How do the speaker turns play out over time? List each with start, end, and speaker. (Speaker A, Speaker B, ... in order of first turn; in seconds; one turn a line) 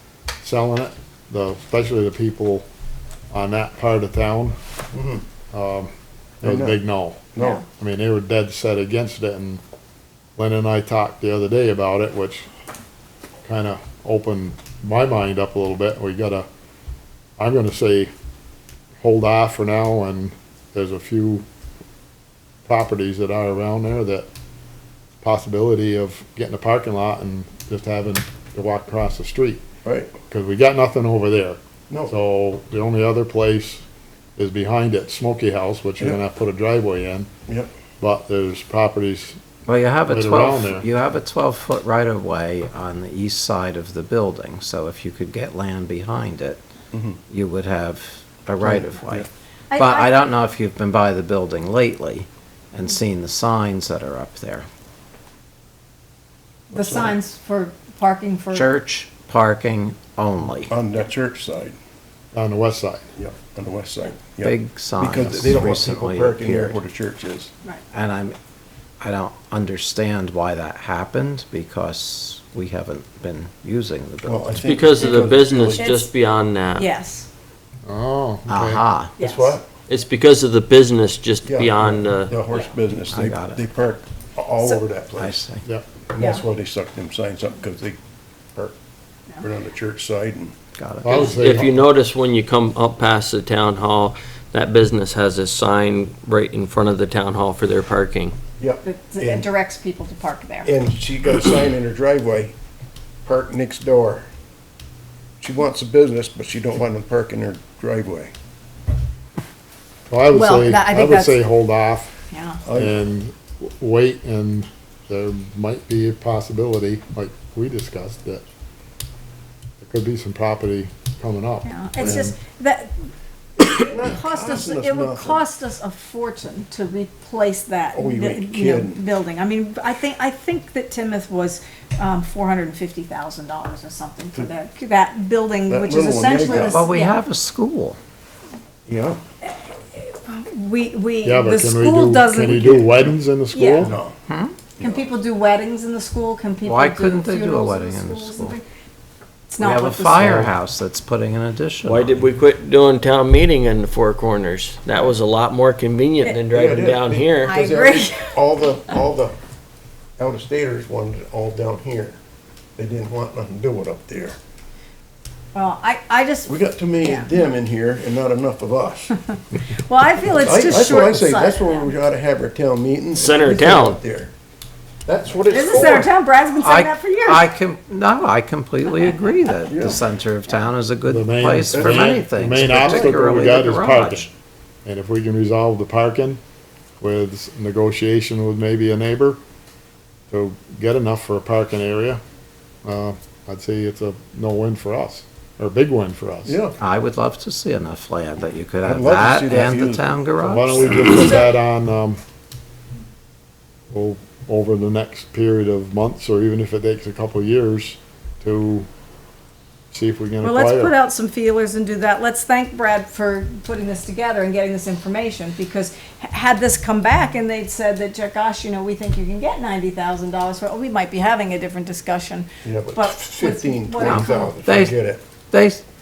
Speaker A: 0.4-2.6
Speaker A: 3.3-4.5
Speaker B: 4.9-5.2
Speaker A: 5.5-5.9
Speaker B: 6.4-6.8
Speaker A: 6.4-9.6
Speaker B: 7.3-7.6
Speaker C: 7.4-7.6
Speaker A: 10.4-12.5
Speaker A: 13.4-16.4
Speaker A: 17.4-18.1
Speaker A: 19.0-21.4
Speaker A: 22.6-24.3
Speaker A: 25.2-29.6
Speaker B: 29.8-30.1
Speaker A: 30.2-33.8
Speaker A: 34.4-37.3
Speaker A: 38.0-39.4
Speaker D: 39.6-46.6
Speaker A: 40.0-40.8
Speaker B: 46.9-47.2
Speaker D: 47.3-54.6
Speaker B: 48.6-49.3
Speaker C: 49.7-50.1
Speaker C: 56.7-58.7
Speaker B: 56.7-57.1
Speaker D: 58.5-60.7
Speaker B: 60.7-61.8
Speaker A: 62.3-63.0
Speaker B: 63.2-67.5
Speaker D: 64.4-66.8
Speaker A: 65.2-65.4
Speaker D: 67.9-68.3
Speaker D: 69.0-74.6
Speaker B: 74.2-75.9
Speaker E: 74.6-76.9
Speaker C: 74.9-76.1
Speaker C: 76.8-77.3
Speaker A: 77.8-78.8
Speaker D: 78.5-79.2
Speaker C: 79.2-79.6
Speaker B: 79.2-79.7
Speaker E: 79.9-82.4
Speaker B: 81.4-85.4
Speaker D: 83.1-83.6
Speaker D: 85.2-85.6
Speaker B: 86.1-88.0
Speaker C: 86.2-86.4
Speaker B: 89.4-90.5
Speaker D: 90.8-91.2
Speaker A: 91.0-91.7
Speaker E: 91.1-98.3
Speaker B: 98.6-99.5
Speaker C: 98.8-100.7
Speaker B: 100.6-102.5
Speaker B: 103.2-104.3
Speaker B: 105.4-108.3
Speaker A: 110.1-112.1
Speaker C: 110.3-111.5
Speaker C: 112.3-112.6
Speaker B: 112.6-112.9
Speaker A: 112.7-118.4
Speaker A: 119.8-122.4
Speaker C: 121.6-122.9
Speaker B: 122.0-122.3
Speaker C: 123.6-137.2
Speaker B: 123.7-125.5
Speaker B: 127.9-129.0
Speaker B: 135.7-136.9
Speaker D: 136.5-138.0
Speaker B: 138.9-139.2
Speaker C: 139.5-143.9
Speaker A: 141.2-143.9
Speaker B: 143.8-144.2
Speaker D: 144.3-144.6
Speaker B: 144.8-145.1
Speaker C: 144.8-148.6
Speaker D: 146.7-148.6
Speaker C: 149.5-150.5
Speaker D: 149.6-152.2
Speaker E: 151.8-157.6
Speaker B: 156.5-159.4
Speaker C: 157.4-159.0
Speaker B: 160.2-162.2
Speaker B: 162.8-164.3
Speaker C: 165.5-167.3
Speaker B: 166.5-169.1
Speaker C: 169.8-171.9
Speaker B: 170.3-174.3
Speaker E: 173.1-174.0
Speaker C: 173.5-173.8
Speaker B: 175.1-176.1
Speaker C: 175.5-177.4
Speaker D: 176.6-184.3
Speaker B: 179.7-180.0
Speaker A: 181.1-184.3
Speaker B: 181.7-183.6
Speaker A: 184.8-186.4
Speaker A: 187.0-189.4
Speaker A: 190.3-192.2
Speaker A: 192.8-196.6
Speaker B: 196.4-196.8
Speaker D: 196.8-201.2
Speaker B: 198.8-200.0
Speaker A: 200.4-202.2
Speaker C: 201.0-201.5
Speaker A: 203.9-208.9
Speaker A: 209.9-210.9
Speaker C: 210.4-224.6
Speaker B: 222.6-225.2
Speaker D: 224.0-224.9
Speaker D: 225.5-225.8